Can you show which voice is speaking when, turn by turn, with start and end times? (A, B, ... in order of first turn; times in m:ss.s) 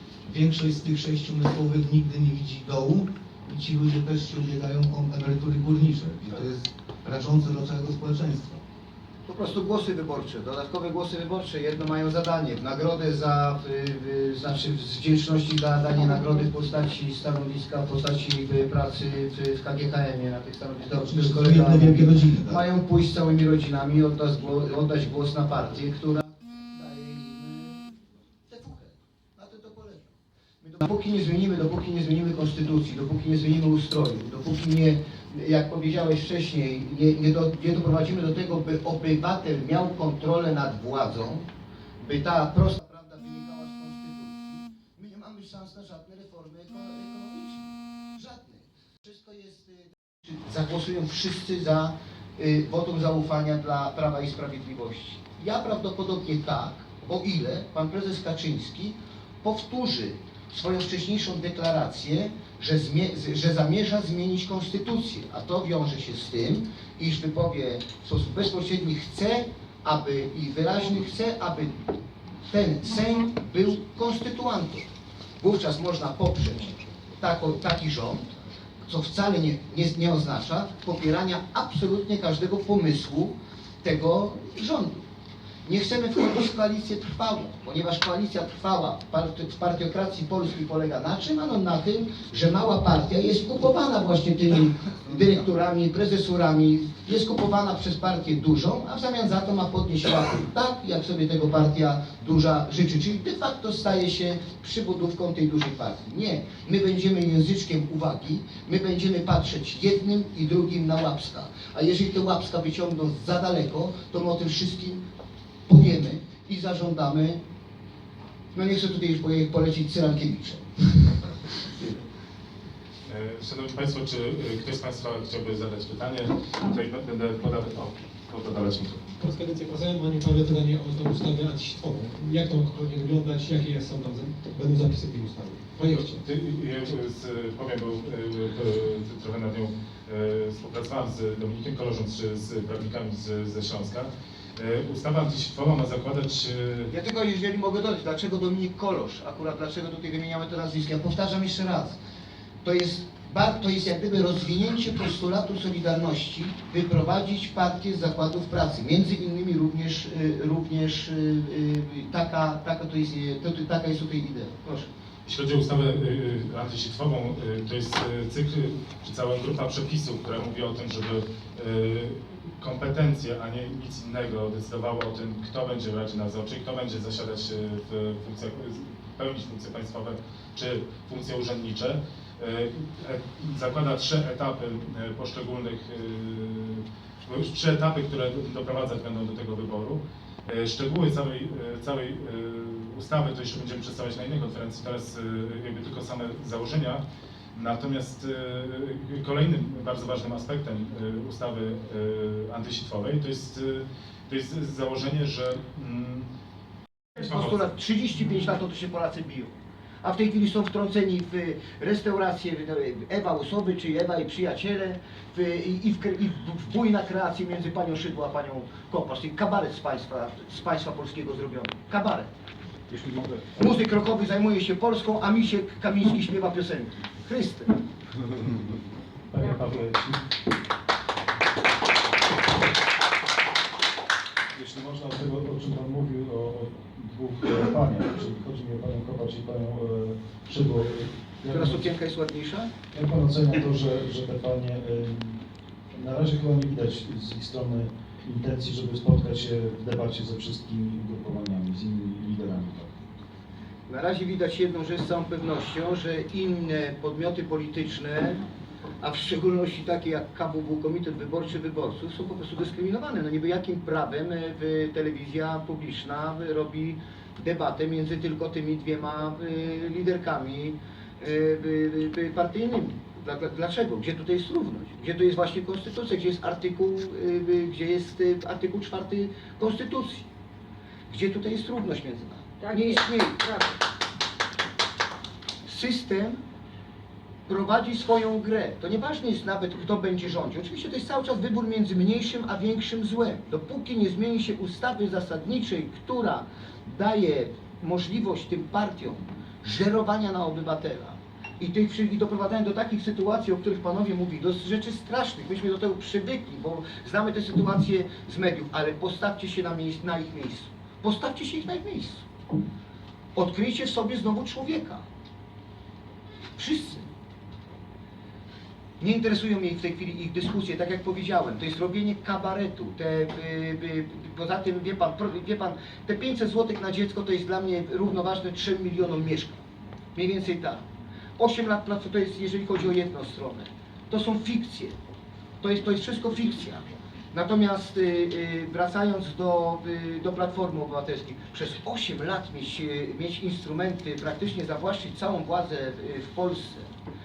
0:00.2-0:08.6 A
0:09.3-0:27.8 B
0:21.0-0:22.6 A
0:28.5-0:30.1 B
0:30.6-0:41.5 B
0:42.0-1:11.8 B
1:12.5-1:14.9 B
1:15.4-1:18.3 B
1:18.9-1:25.0 B
1:25.6-1:55.0 B
1:55.7-1:57.4 B
1:58.5-2:01.4 B
2:03.0-2:09.1 C
2:09.2-2:16.2 D
2:16.2-2:26.9 C
2:26.9-2:32.0 B
2:32.6-2:44.9 B
2:45.2-3:17.0 C
3:17.5-3:26.3 C
3:27.2-3:42.3 B
3:27.2-3:27.6 C
3:42.9-3:43.5 E
3:43.5-3:47.7 B
3:49.3-3:50.2 E
3:54.6-4:01.9 E
4:01.5-4:02.7 B
4:02.9-4:13.0 E
4:13.9-4:18.4 B
4:19.0-4:40.3 B
4:41.1-4:43.6 B
4:45.6-4:46.4 B
4:47.5-5:12.2 B
5:13.3-5:15.0 B
5:16.6-5:17.1 B
5:19.0-5:29.6 B
5:30.2-5:30.8 B
5:31.4-5:35.0 B
5:35.6-5:46.9 B